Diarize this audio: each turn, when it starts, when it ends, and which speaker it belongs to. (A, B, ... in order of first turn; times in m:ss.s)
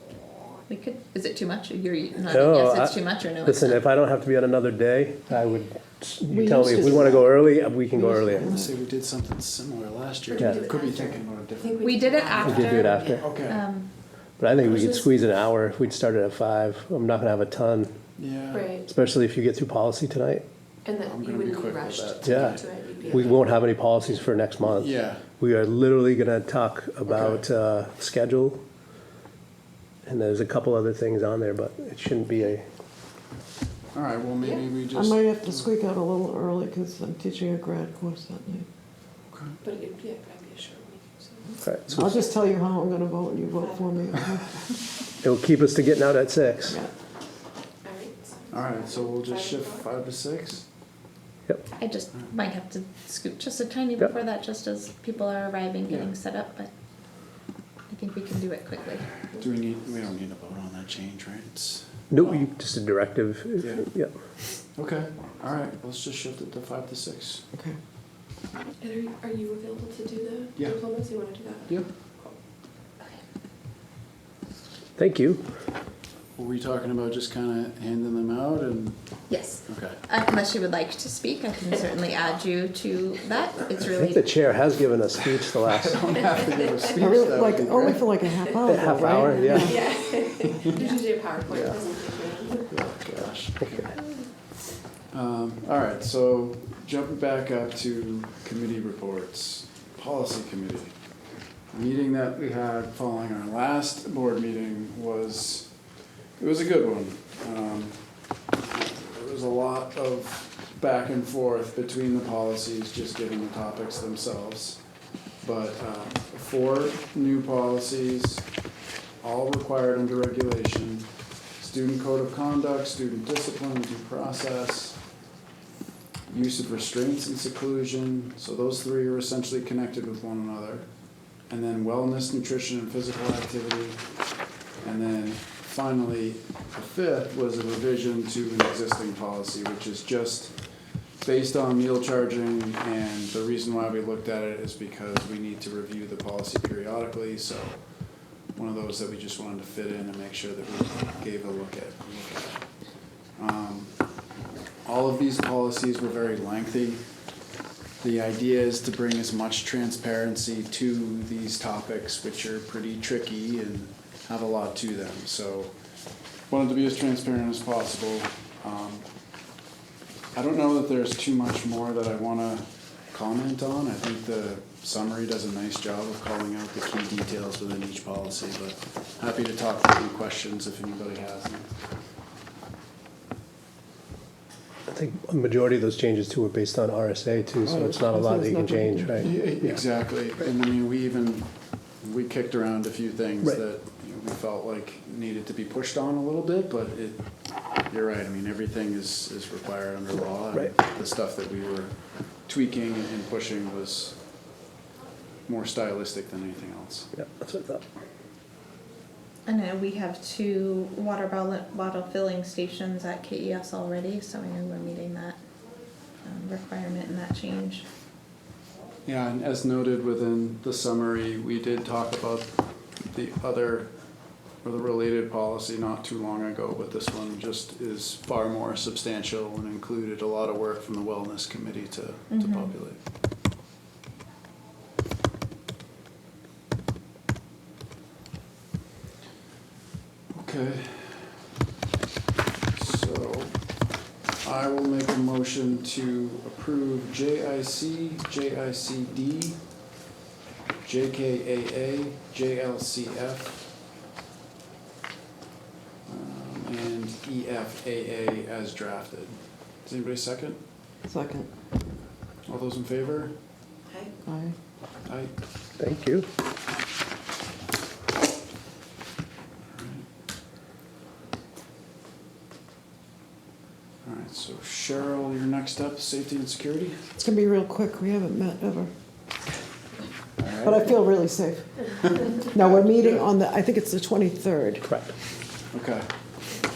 0:00.7-0:03.8 A
0:02.3-0:08.5 B
0:06.3-0:07.3 C
0:07.9-0:08.7 C
0:08.5-0:12.5 D
0:10.3-0:13.2 E
0:11.8-0:13.9 A
0:12.4-0:13.4 B
0:13.2-0:13.6 D
0:14.4-0:17.9 B
0:18.2-0:18.7 D
0:18.5-0:18.9 E
0:18.9-0:20.4 B
0:20.8-0:23.4 E
0:21.0-0:23.3 D
0:22.2-0:28.6 B
0:24.6-0:25.2 D
0:27.0-0:27.4 D
0:30.0-0:32.6 B
0:33.9-0:35.6 D
0:34.9-0:38.7 C
0:39.3-0:39.6 D
0:39.6-0:41.6 E
0:41.6-0:42.1 B
0:41.9-0:44.6 C
0:43.6-0:44.0 E
0:45.2-0:46.8 B
0:47.8-0:49.9 E
0:48.5-0:50.6 D
0:51.8-0:56.7 A
0:55.9-0:56.1 D
0:57.9-0:59.2 A
0:59.3-1:02.4 D
1:02.1-1:04.1 B
1:03.6-1:03.9 D
1:04.7-1:07.4 D
1:08.8-1:11.8 E
1:15.0-1:15.4 B
1:16.4-1:19.0 D
1:19.3-1:24.3 A
1:19.7-1:20.0 D
1:23.9-1:26.0 B
1:25.5-1:28.1 D
1:26.8-1:27.1 E
1:26.9-1:29.8 C
1:28.3-1:28.6 E
1:28.6-1:29.8 B
1:29.2-1:32.7 E
1:30.6-1:31.0 A
1:31.5-1:34.0 D
1:33.6-1:33.9 B
1:35.1-1:40.9 D
1:41.7-1:45.7 D
1:46.4-1:48.0 D
1:48.6-1:54.8 D
1:55.4-1:58.5 D
1:59.2-2:01.1 D
2:01.6-2:05.0 D
2:06.3-2:10.9 D
2:11.5-2:14.0 D
2:14.8-2:20.6 D
2:21.2-2:27.8 D
2:28.5-2:32.6 D
2:33.4-2:33.9 D
2:34.8-2:37.0 D
2:38.0-2:45.7 D
2:46.5-2:49.1 D
2:50.3-3:01.7 D
3:04.9-3:09.8 B
3:07.6-3:09.3 C
3:09.2-3:17.2 D
3:17.9-3:21.9 D
3:22.4-3:24.2 D
3:25.5-3:27.1 D
3:27.1-3:27.8 B
3:29.5-3:35.4 A
3:36.2-3:37.8 A
3:39.0-3:42.5 D
3:43.0-3:43.9 D
3:44.6-3:53.0 D
3:52.3-3:52.7 A
4:00.3-4:01.4 D
4:02.7-4:03.6 D
4:04.4-4:09.6 D
4:10.8-4:13.6 D
4:16.0-4:20.6 D
4:21.1-4:21.5 C
4:22.4-4:23.3 D
4:24.2-4:24.5 C
4:25.0-4:25.3 D
4:25.8-4:26.3 B
4:29.7-4:30.0 D
4:34.0-4:37.0 D
4:37.2-4:38.9 C
4:40.4-4:41.0 D
4:40.6-4:44.8 C
4:42.6-4:43.2 D
4:44.8-4:45.1 B
4:45.7-4:46.1 D